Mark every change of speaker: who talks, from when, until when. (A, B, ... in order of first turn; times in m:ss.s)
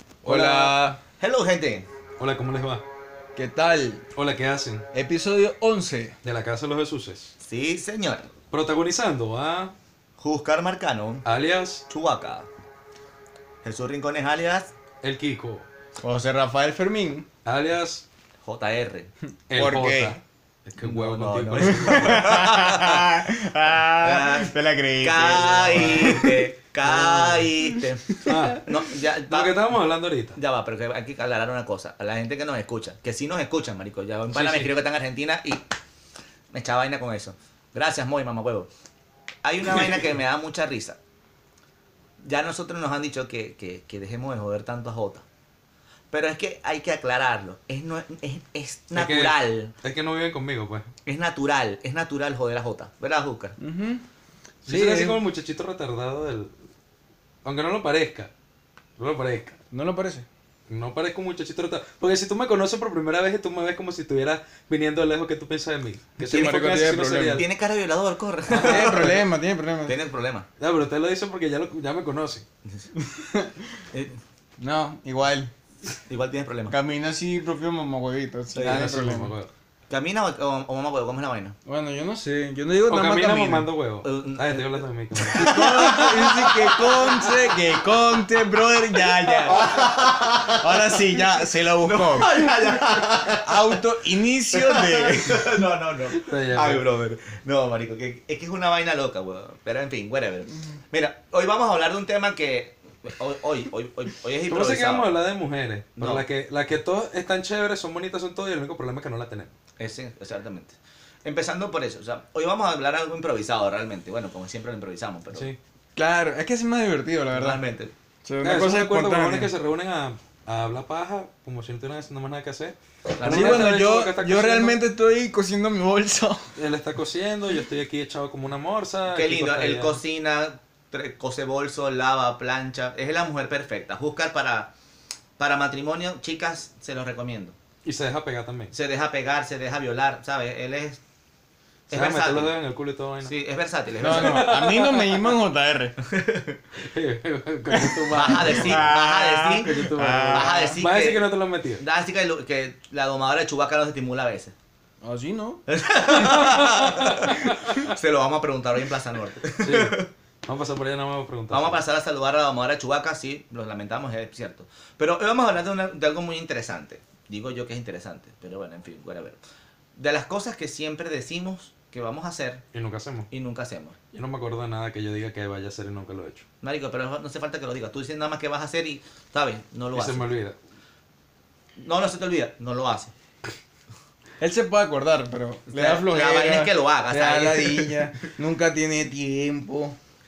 0:00.2-0:01.9 A
0:00.2-0:01.0 B
0:02.2-0:02.8 C
0:03.3-0:04.0 B
0:04.1-0:04.8 C
0:04.9-0:06.2 B
0:06.2-0:07.3 C
0:07.4-0:08.3 A
0:08.5-0:09.7 C
0:10.2-0:11.2 A
0:11.2-0:11.8 C
0:11.9-0:12.5 A
0:13.6-0:14.7 A
0:15.0-0:15.7 C
0:16.0-0:17.3 B
0:17.4-0:18.0 C
0:18.4-0:19.1 A
0:19.5-0:22.8 C
0:19.6-0:20.2 B
0:20.8-0:23.2 A
0:21.6-0:28.5 B
0:24.0-0:29.6 A
0:25.8-0:26.2 C
0:28.2-0:28.6 C
0:29.2-0:30.4 C
0:30.4-0:35.6 A
0:34.3-0:34.7 C
0:36.5-0:38.7 A
0:39.4-0:41.0 A
0:42.2-0:45.2 A
0:46.1-0:49.7 A
0:48.9-0:50.9 C
0:51.0-0:53.6 A
0:53.6-0:54.0 B
0:54.6-0:56.6 C
0:54.6-0:55.2 B
0:57.4-0:58.3 C
0:59.0-0:59.6 C
0:59.7-1:00.3 B
1:00.7-1:07.4 C
1:06.2-1:07.4 B
1:07.3-1:09.2 A
1:08.5-1:09.2 C
1:08.6-1:10.0 B
1:09.8-1:10.4 A
1:10.6-1:12.4 C
1:13.0-1:13.8 B
1:14.6-1:15.5 B
1:16.1-1:16.8 A
1:16.7-1:19.3 B
1:18.6-1:18.9 A
1:18.6-1:19.5 C
1:19.9-1:21.6 A
1:21.6-1:23.7 B
1:22.9-1:27.2 C
1:24.0-1:27.7 A
1:25.3-1:32.5 B
1:29.4-1:33.8 A
1:33.3-1:35.6 B
1:34.5-1:45.1 A
1:36.1-1:36.8 C
1:44.5-1:49.5 C
1:46.0-1:46.2 A
1:49.8-1:55.5 A
1:56.0-1:57.6 B
1:57.3-1:57.9 A
1:58.2-1:59.5 B
1:58.4-2:04.8 C
2:03.1-2:03.8 A
2:03.2-2:06.5 B
2:06.6-2:10.0 C
2:09.1-2:14.7 A
2:15.4-2:17.5 A
2:17.8-2:18.7 C
2:18.7-2:21.0 A
2:21.9-2:22.5 A
2:21.9-2:23.3 C
2:23.2-2:24.6 A
2:24.0-2:26.0 B
2:24.0-2:25.4 C
2:26.1-2:26.6 A
2:26.8-2:28.8 C
2:27.7-2:30.8 B
2:28.1-2:29.7 A
2:29.6-2:31.8 C
2:30.3-2:31.3 A
2:31.8-2:34.5 A
2:35.0-2:35.6 B
2:35.7-2:40.1 A
2:36.1-2:37.9 C
2:39.6-2:41.8 C
2:41.5-2:49.4 A
2:50.0-2:52.6 A
2:52.7-2:53.3 C
2:53.3-2:54.0 A
2:54.1-2:56.4 C
2:56.6-3:00.3 A
2:59.9-3:00.6 C
3:01.8-3:03.1 A
3:04.4-3:10.0 B
3:05.7-3:08.3 A